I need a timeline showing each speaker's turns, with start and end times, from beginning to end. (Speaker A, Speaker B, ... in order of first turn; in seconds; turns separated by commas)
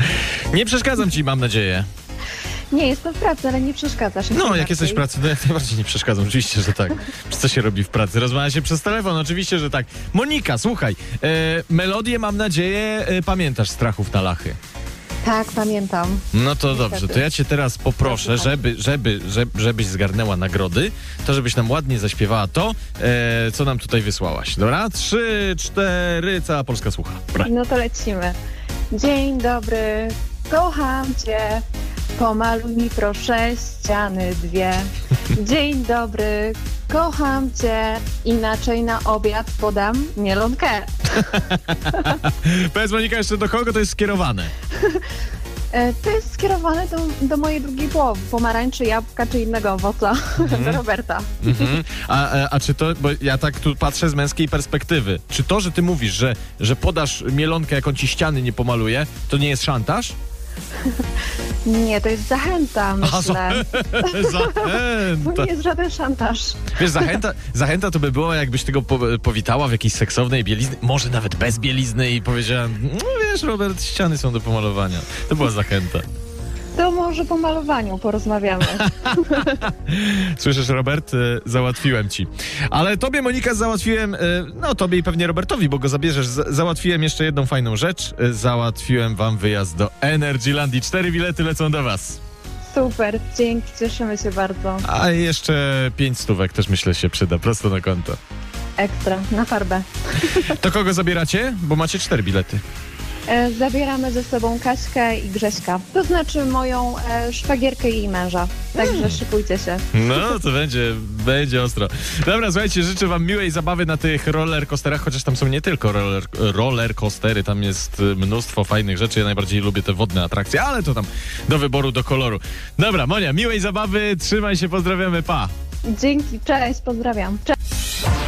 Speaker A: 0.5-1.9, Speaker B: 2.7-5.0, Speaker A: 4.3-14.6, Speaker B: 15.2-17.2, Speaker A: 16.3-27.5, Speaker B: 18.0-18.6, Speaker B: 27.4-28.4, Speaker B: 28.9-31.6, Speaker B: 32.1-41.5, Speaker A: 41.2-44.5, Speaker B: 45.7-51.8, Speaker A: 50.4-50.8, Speaker A: 51.4-60.1, Speaker B: 61.6-67.0, Speaker A: 63.0-65.5, Speaker A: 66.7-76.0, Speaker B: 76.8-79.6, Speaker A: 78.9-92.2, Speaker B: 92.7-94.8, Speaker A: 94.8-98.2, Speaker B: 98.8-100.5, Speaker A: 100.3-102.6, Speaker B: 103.3-109.8, Speaker A: 108.7-109.2, Speaker A: 109.9-125.5, Speaker B: 125.9-127.5